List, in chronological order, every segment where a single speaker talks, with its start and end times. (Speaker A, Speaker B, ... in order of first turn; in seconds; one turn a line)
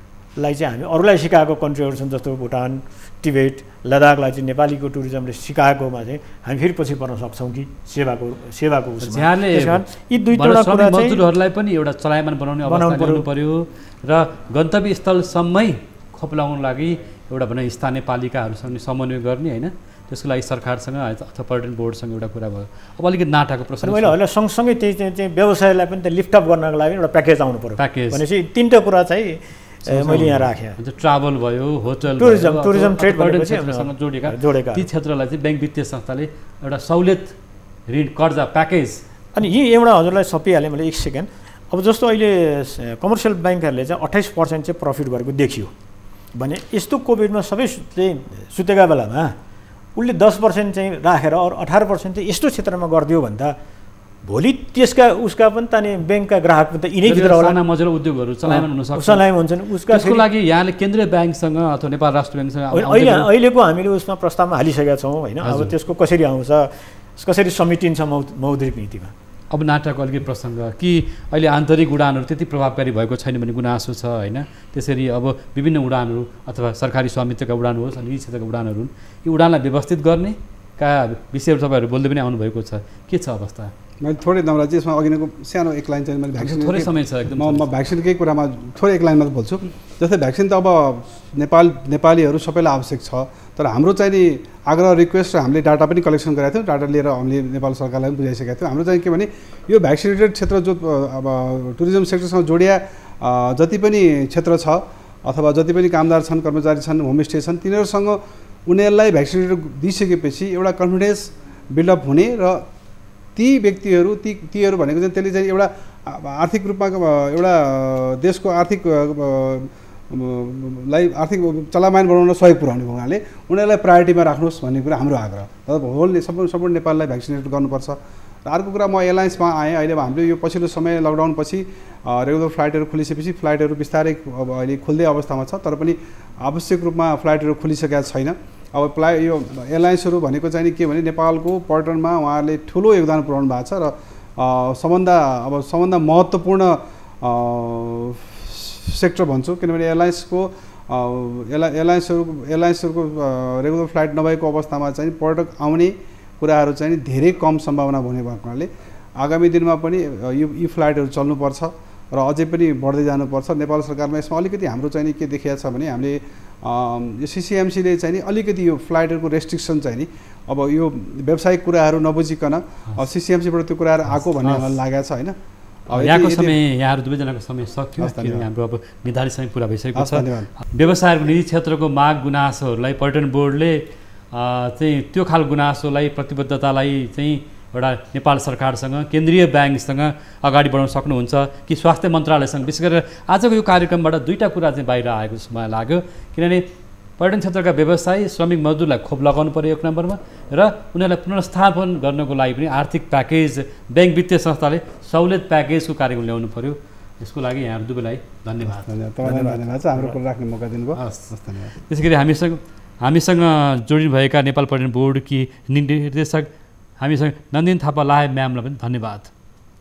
Speaker A: 0.3-11.2
Speaker B: 9.0-24.1
Speaker A: 12.6-13.3
Speaker A: 23.8-30.8
Speaker B: 27.8-28.2
Speaker B: 29.9-37.4
Speaker A: 32.2-34.9
Speaker B: 37.9-39.0
Speaker A: 39.3-45.7
Speaker A: 46.4-49.4
Speaker A: 50.0-53.6
Speaker A: 54.2-57.6
Speaker B: 57.1-59.3
Speaker A: 58.5-60.2
Speaker B: 59.9-63.3
Speaker A: 62.7-69.1
Speaker B: 65.4-65.8
Speaker B: 69.5-83.7
Speaker C: 84.0-112.7
Speaker B: 86.4-87.7
Speaker C: 113.4-175.4
Speaker B: 174.4-174.8
Speaker C: 175.9-176.6
Speaker B: 175.9-196.7
Speaker C: 178.0-178.5
Speaker C: 179.9-180.5
Speaker B: 197.2-209.8
Speaker C: 208.6-211.7
Speaker B: 210.9-211.3
Speaker B: 211.9-216.5
Speaker B: 217.0-219.3